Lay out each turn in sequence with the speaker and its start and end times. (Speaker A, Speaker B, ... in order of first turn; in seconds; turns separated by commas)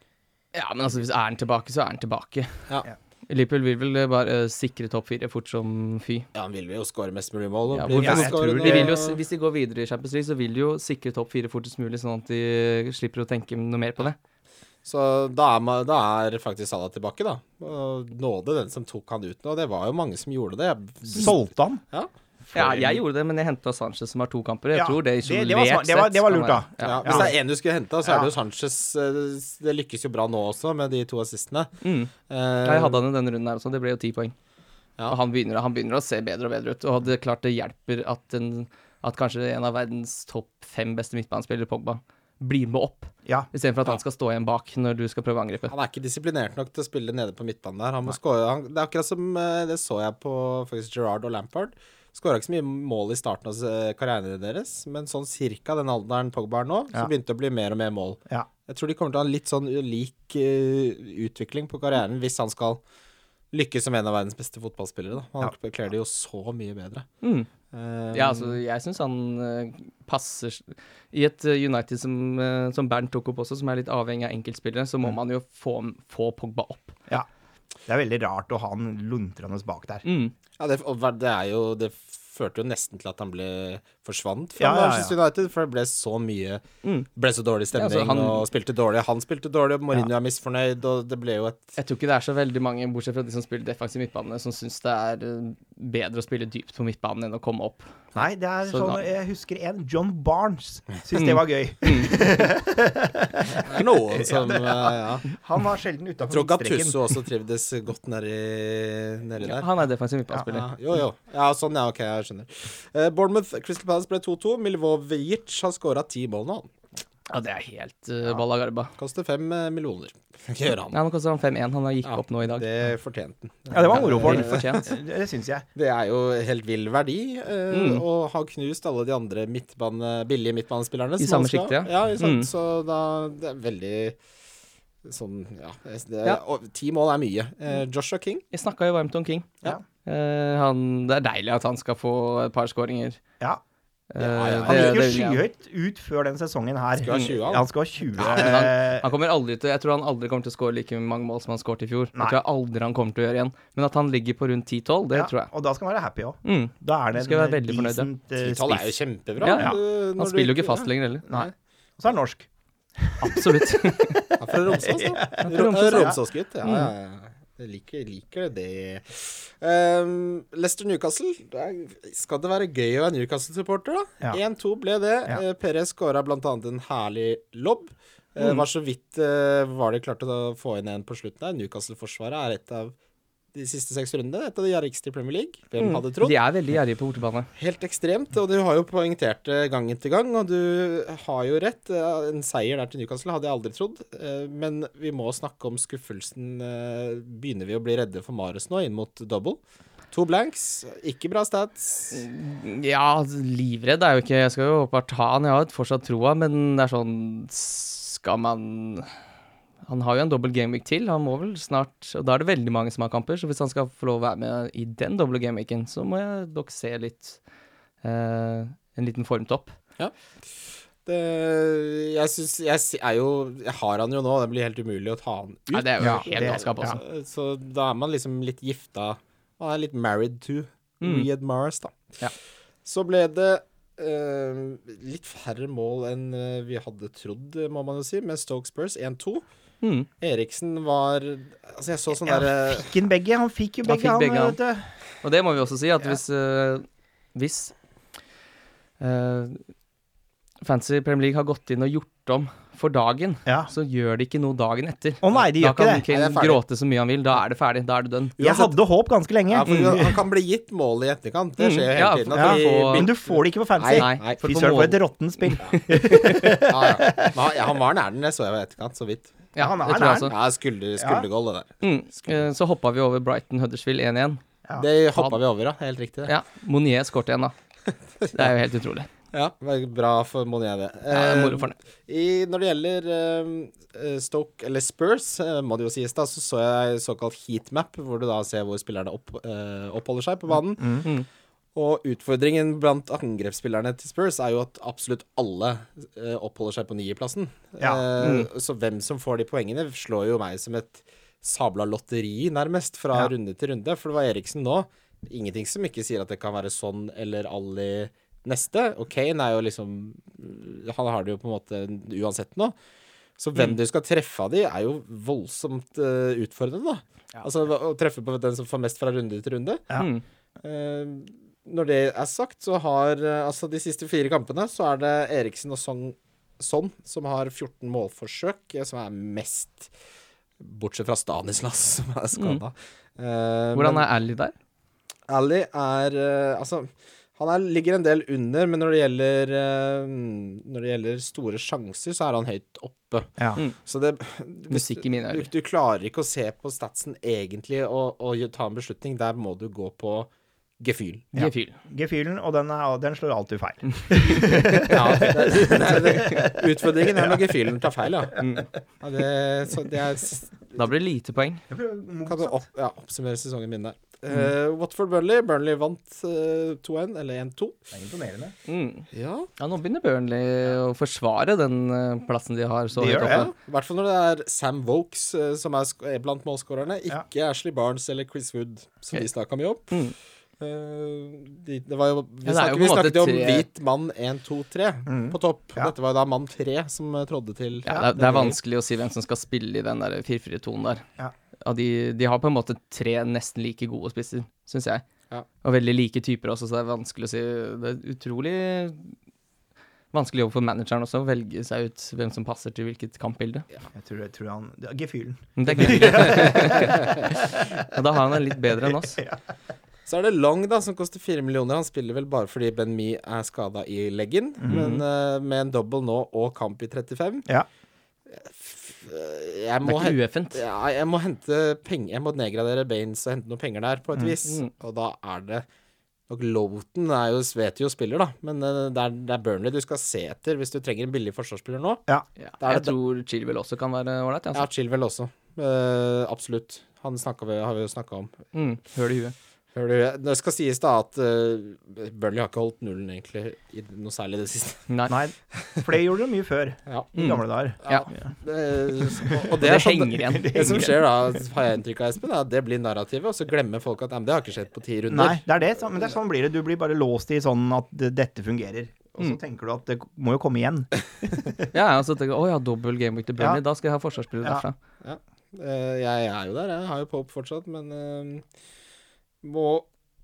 Speaker A: 0.5-2.6, Speaker A: 3.3-6.3, Speaker B: 6.3-9.2, Speaker A: 7.7-14.2, Speaker C: 8.0-9.0, Speaker B: 14.8-21.4, Speaker C: 21.2-21.8, Speaker C: 22.5-23.0, Speaker A: 22.5-27.3, Speaker C: 24.7-27.4, Speaker B: 26.8-31.7, Speaker C: 28.0-28.3, Speaker A: 31.8-32.1, Speaker B: 32.3-33.0, Speaker A: 32.6-34.4, Speaker A: 35.1-45.7, Speaker B: 45.7-62.8, Speaker B: 63.5-67.1, Speaker A: 67.2-67.5, Speaker B: 67.7-68.6, Speaker A: 68.1-77.0, Speaker C: 77.9-80.0, Speaker A: 80.0-80.3, Speaker B: 80.6-86.6, Speaker C: 84.6-85.2, Speaker B: 87.2-91.8, Speaker A: 87.8-88.5, Speaker A: 91.8-98.0, Speaker C: 98.2-107.1, Speaker A: 98.7-99.0, Speaker A: 101.2-102.2, Speaker B: 103.5-105.3, Speaker B: 106.3-109.7, Speaker A: 109.4-110.7, Speaker B: 110.4-116.7, Speaker A: 117.3-118.9, Speaker B: 119.0-121.0, Speaker A: 120.9-122.7, Speaker B: 122.0-125.0, Speaker C: 123.7-125.7, Speaker A: 123.8-124.9, Speaker B: 125.8-134.2, Speaker A: 127.7-128.0, Speaker A: 131.2-132.5, Speaker B: 135.1-138.4, Speaker A: 138.5-143.2, Speaker A: 144.1-145.4, Speaker B: 144.2-145.2, Speaker C: 144.7-149.1, Speaker B: 147.0-147.7, Speaker A: 147.1-147.4, Speaker A: 148.2-155.5, Speaker B: 148.2-148.5, Speaker C: 155.1-159.0, Speaker A: 156.4-158.1, Speaker B: 158.4-161.5, Speaker A: 159.4-161.2, Speaker C: 161.3-166.2, Speaker A: 163.2-164.2, Speaker B: 164.4-182.9, Speaker A: 165.4-166.9, Speaker B: 183.5-186.3, Speaker A: 185.8-187.5, Speaker B: 187.6-199.6, Speaker B: 200.1-202.2, Speaker A: 202.1-209.1, Speaker A: 209.8-217.4, Speaker A: 218.0-219.8, Speaker B: 221.1-232.1, Speaker A: 225.7-227.0, Speaker C: 226.0-227.0, Speaker A: 231.0-231.3, Speaker B: 232.8-239.4, Speaker A: 239.8-240.1, Speaker B: 240.2-242.9, Speaker C: 242.2-244.9, Speaker A: 243.9-244.6, Speaker A: 245.2-247.7, Speaker A: 249.0-249.7, Speaker A: 250.6-258.7, Speaker C: 253.5-253.7, Speaker C: 255.2-256.0, Speaker B: 256.1-256.6, Speaker C: 258.4-260.2, Speaker B: 259.5-264.4, Speaker A: 259.7-259.9, Speaker A: 261.6-263.1, Speaker C: 262.3-267.4, Speaker A: 263.9-266.6, Speaker B: 266.5-269.3, Speaker A: 269.6-270.3, Speaker C: 269.6-270.3, Speaker B: 270.3-272.4, Speaker C: 271.0-271.3, Speaker A: 271.8-274.4, Speaker B: 274.8-276.3, Speaker A: 276.3-277.5, Speaker B: 278.2-278.5, Speaker A: 278.3-279.1, Speaker B: 279.3-291.1, Speaker A: 281.1-281.8, Speaker C: 290.8-291.1, Speaker B: 291.8-312.7, Speaker C: 297.8-298.1, Speaker A: 298.2-298.5, Speaker B: 313.4-319.9, Speaker A: 319.9-320.2, Speaker B: 320.6-329.9, Speaker B: 330.6-334.1, Speaker A: 332.4-332.6, Speaker A: 333.7-334.5, Speaker B: 335.3-350.3, Speaker A: 344.7-345.5, Speaker B: 350.8-351.3, Speaker A: 351.3-351.8, Speaker C: 351.4-357.4, Speaker A: 354.5-354.9, Speaker B: 354.8-358.4, Speaker A: 355.6-356.5, Speaker A: 358.4-358.7, Speaker B: 359.0-360.7, Speaker A: 360.8-361.6, Speaker C: 361.7-362.6, Speaker B: 362.3-367.8, Speaker C: 367.9-368.6, Speaker A: 368.7-369.1, Speaker B: 369.1-369.5, Speaker A: 369.6-373.5, Speaker C: 373.0-373.5, Speaker B: 373.1-379.9, Speaker B: 380.6-388.6, Speaker A: 382.4-383.7, Speaker C: 385.1-385.9, Speaker A: 387.9-391.0, Speaker A: 391.6-395.1, Speaker A: 395.6-399.1, Speaker A: 400.1-403.7, Speaker C: 403.9-407.9, Speaker A: 405.6-409.2, Speaker B: 405.7-407.2, Speaker C: 408.8-409.4, Speaker B: 410.1-417.5, Speaker C: 414.6-414.9, Speaker A: 414.7-415.0, Speaker B: 418.3-425.7, Speaker A: 419.8-420.6, Speaker A: 424.4-424.7, Speaker B: 426.3-432.0, Speaker A: 432.4-434.7, Speaker B: 434.5-438.4, Speaker A: 438.5-439.4, Speaker B: 439.7-444.9, Speaker A: 444.9-445.2, Speaker C: 445.1-448.3, Speaker B: 446.9-447.1, Speaker A: 447.2-448.1, Speaker B: 447.9-455.5, Speaker C: 449.1-451.0, Speaker A: 449.5-450.9, Speaker C: 455.1-461.7, Speaker A: 461.7-464.8, Speaker B: 465.0-468.4, Speaker B: 469.4-469.9